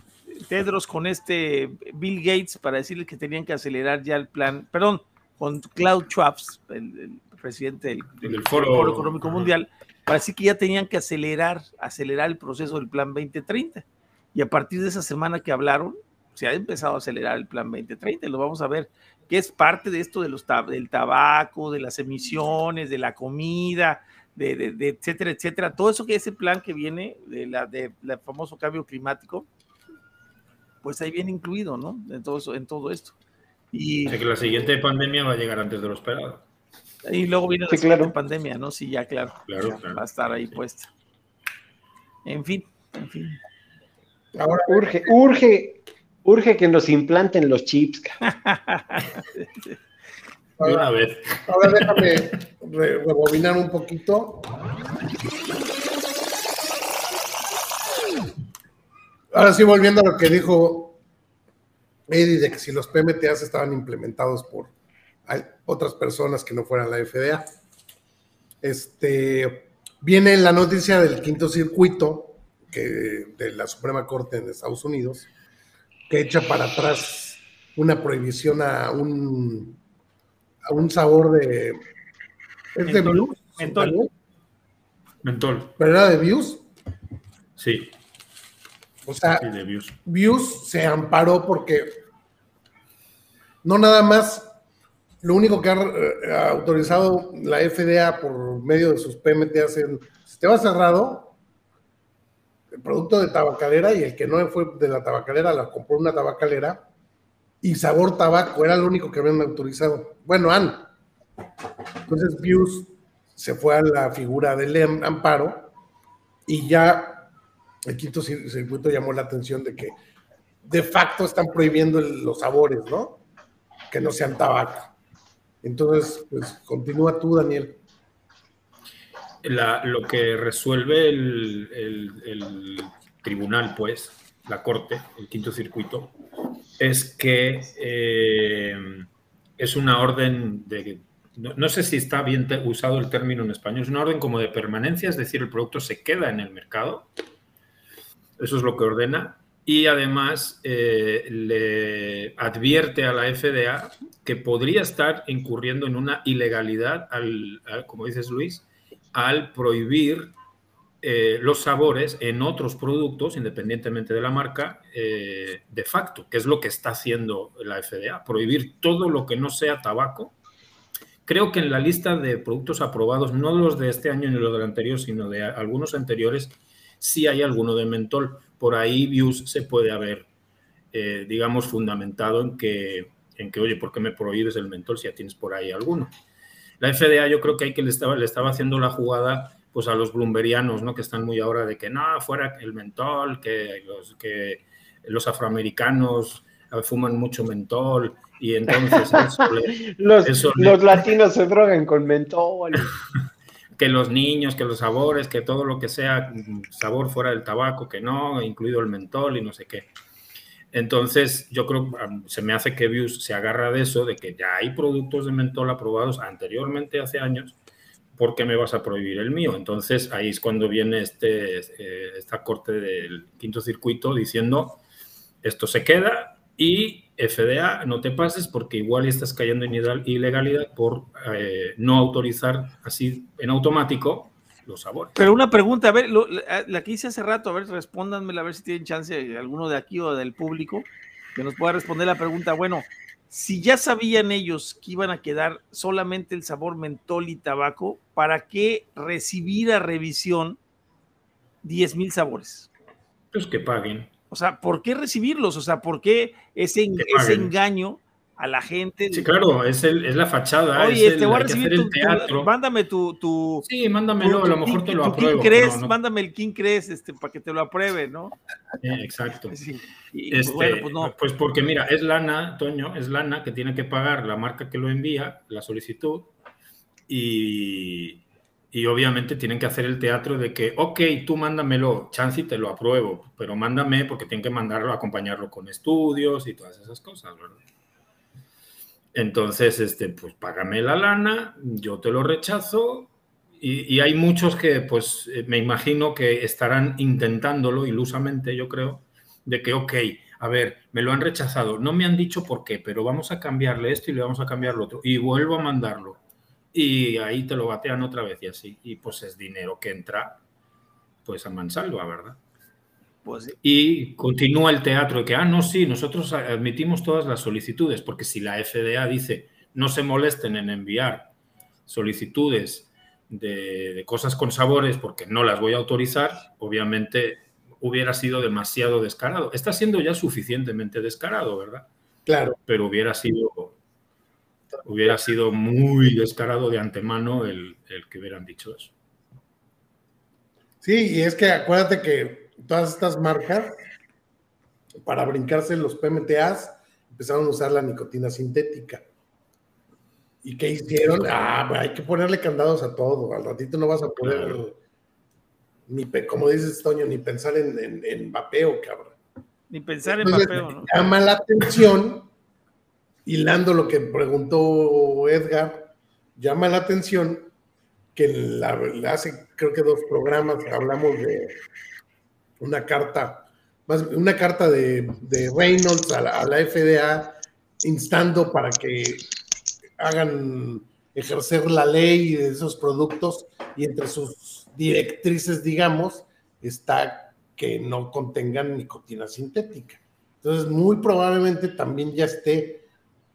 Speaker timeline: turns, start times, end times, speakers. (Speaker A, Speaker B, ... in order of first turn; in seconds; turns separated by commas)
Speaker A: 0.3-29.5, Speaker B: 8.2-9.5, Speaker A: 30.8-33.1, Speaker A: 33.7-34.2, Speaker B: 34.0-36.4, Speaker A: 37.0-40.9, Speaker C: 37.7-38.1, Speaker B: 39.5-40.4, Speaker A: 42.2-43.4, Speaker D: 44.3-45.1, Speaker C: 44.7-48.2, Speaker A: 48.3-49.8, Speaker D: 50.6-50.9, Speaker B: 50.6-52.3, Speaker D: 51.5-54.5, Speaker D: 59.3-61.0, Speaker D: 62.1-64.7, Speaker D: 65.3-67.5, Speaker D: 68.6-75.3, Speaker D: 76.1-79.8, Speaker D: 80.7-81.8, Speaker D: 82.7-84.1, Speaker A: 82.8-84.0, Speaker B: 85.2-85.7, Speaker D: 85.8-86.6, Speaker B: 87.6-87.9, Speaker D: 89.0-89.5, Speaker B: 89.4-90.0, Speaker D: 90.0-92.0, Speaker D: 93.6-94.5, Speaker D: 95.2-101.3, Speaker D: 102.8-106.8, Speaker D: 107.6-110.9, Speaker D: 112.0-115.7, Speaker D: 116.5-117.3, Speaker D: 117.9-119.9, Speaker D: 120.6-123.2, Speaker D: 123.9-124.9, Speaker D: 125.6-127.8, Speaker B: 129.4-136.1, Speaker B: 136.8-139.1, Speaker B: 139.6-147.1, Speaker B: 148.4-160.3, Speaker B: 161.0-170.3, Speaker B: 171.2-180.3, Speaker B: 180.9-186.1, Speaker B: 186.8-201.1, Speaker C: 199.1-202.9, Speaker B: 203.8-209.9, Speaker B: 210.7-217.6, Speaker B: 218.2-224.8, Speaker B: 225.4-235.3, Speaker A: 235.2-250.6, Speaker A: 251.6-252.7, Speaker B: 253.3-254.1, Speaker A: 254.3-259.3, Speaker B: 256.9-257.5, Speaker B: 259.1-262.5, Speaker A: 260.7-263.6, Speaker B: 263.6-266.0, Speaker A: 264.2-268.3, Speaker B: 268.8-269.6, Speaker A: 269.5-271.1, Speaker B: 270.3-276.3, Speaker B: 277.1-287.6, Speaker B: 289.1-306.2, Speaker B: 306.7-310.4, Speaker B: 311.2-312.4, Speaker A: 313.2-313.6, Speaker B: 313.6-321.3, Speaker B: 321.9-331.9, Speaker D: 332.3-332.6, Speaker B: 332.7-333.8, Speaker B: 334.8-338.9, Speaker D: 340.8-343.7, Speaker D: 345.0-349.0, Speaker D: 350.4-354.8, Speaker B: 354.2-354.6, Speaker D: 355.9-359.1, Speaker A: 359.7-360.9, Speaker D: 360.1-362.3, Speaker D: 363.2-367.5, Speaker D: 368.1-371.6, Speaker D: 372.6-379.2, Speaker D: 380.0-392.8